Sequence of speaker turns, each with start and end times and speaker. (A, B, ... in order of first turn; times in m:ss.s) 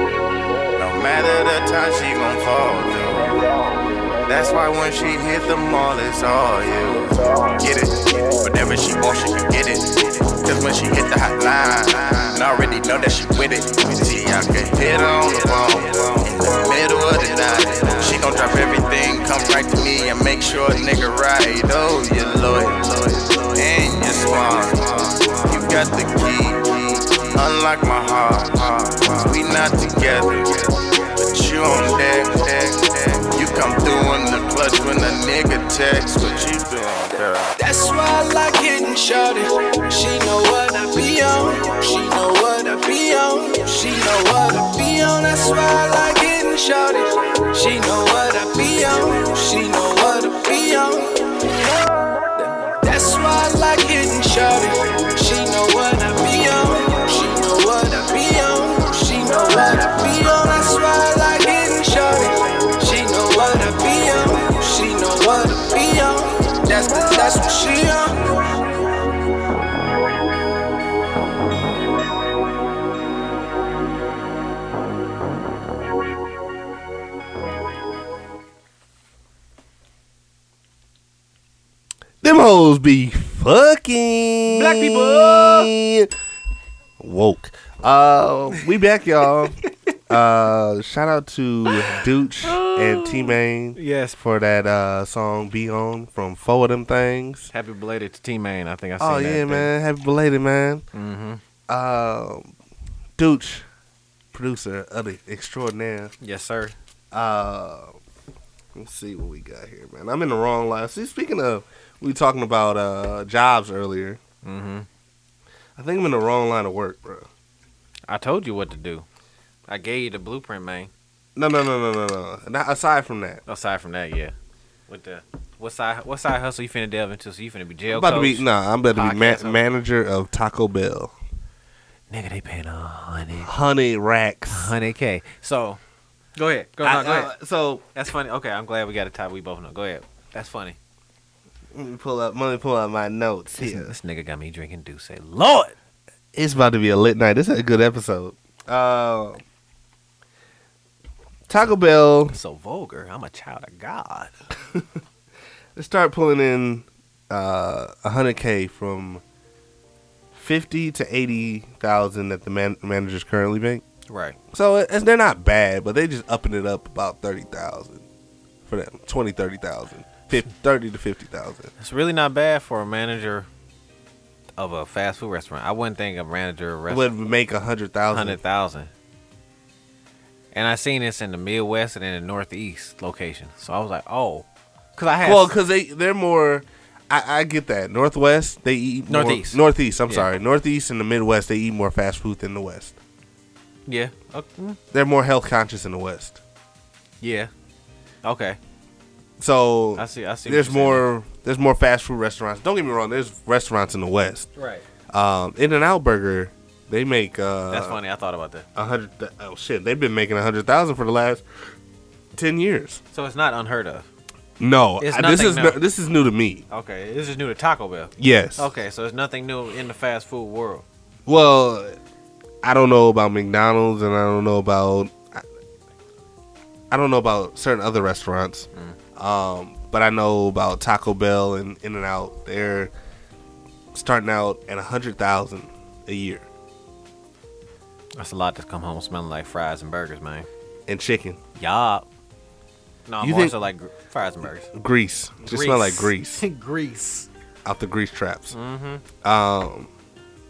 0:00.8-0:03.3 A
0:04.3-0:37.5 A
0:37.6-0:51.2 B
0:52.8-1:08.2 B
1:22.2-1:26.1 C
1:24.5-1:25.7 D
1:27.0-1:37.5 C
1:29.6-1:30.0 D
1:31.7-1:34.2 D
1:37.5-1:39.7 D
1:39.0-1:40.8 C
1:40.9-1:41.4 D
1:41.7-1:42.5 C
1:43.2-1:43.6 C
1:44.3-1:46.1 C
1:46.2-1:46.7 D
1:47.1-1:48.0 C
1:48.7-1:54.2 C
1:54.4-1:54.9 D
1:55.8-1:57.3 C
1:58.1-1:59.0 D
1:59.7-2:00.9 D
2:01.4-2:03.4 C
2:03.5-2:04.3 D
2:04.9-2:09.6 D
2:07.9-2:11.1 C
2:12.1-2:13.5 D
2:13.4-2:14.7 C
2:14.5-2:15.8 D
2:16.4-2:17.3 D
2:16.8-2:17.8 C
2:17.9-2:20.8 D
2:21.7-2:23.9 C
2:23.6-2:25.7 D
2:26.3-2:29.4 C
2:31.5-2:32.3 C
2:32.3-2:34.3 D
2:35.7-2:39.2 C
2:40.3-2:43.8 C
2:44.1-2:44.4 D
2:44.5-2:48.0 C
2:48.6-2:51.7 C
2:51.8-2:53.5 D
2:54.6-2:57.1 D
2:56.9-2:58.4 C
2:58.1-2:58.9 D
3:00.5-3:05.5 D
3:05.2-3:13.0 C
3:09.1-3:10.3 D
3:13.9-3:14.8 D
3:14.9-3:16.4 C
3:17.2-3:17.5 D
3:18.2-3:18.6 D
3:19.4-3:24.5 C
3:20.0-3:21.0 D
3:24.6-3:24.8 D
3:25.1-3:28.0 C
3:27.7-3:28.6 D
3:28.8-3:31.4 C
3:32.3-3:33.0 C
3:33.1-3:34.1 D
3:34.6-3:36.6 C
3:35.0-3:35.8 D
3:36.7-3:40.8 D
3:38.2-3:38.7 C
3:41.2-3:42.0 C
3:42.6-3:45.4 C
3:46.9-3:52.9 C
3:53.9-3:56.5 C
3:58.2-4:00.5 D
4:00.9-4:01.4 C
4:01.6-4:02.1 D
4:03.1-4:04.7 D
4:03.2-4:03.6 C
4:04.7-4:06.4 C
4:05.4-4:07.3 D
4:07.6-4:08.5 C
4:08.5-4:09.0 D
4:09.2-4:09.9 C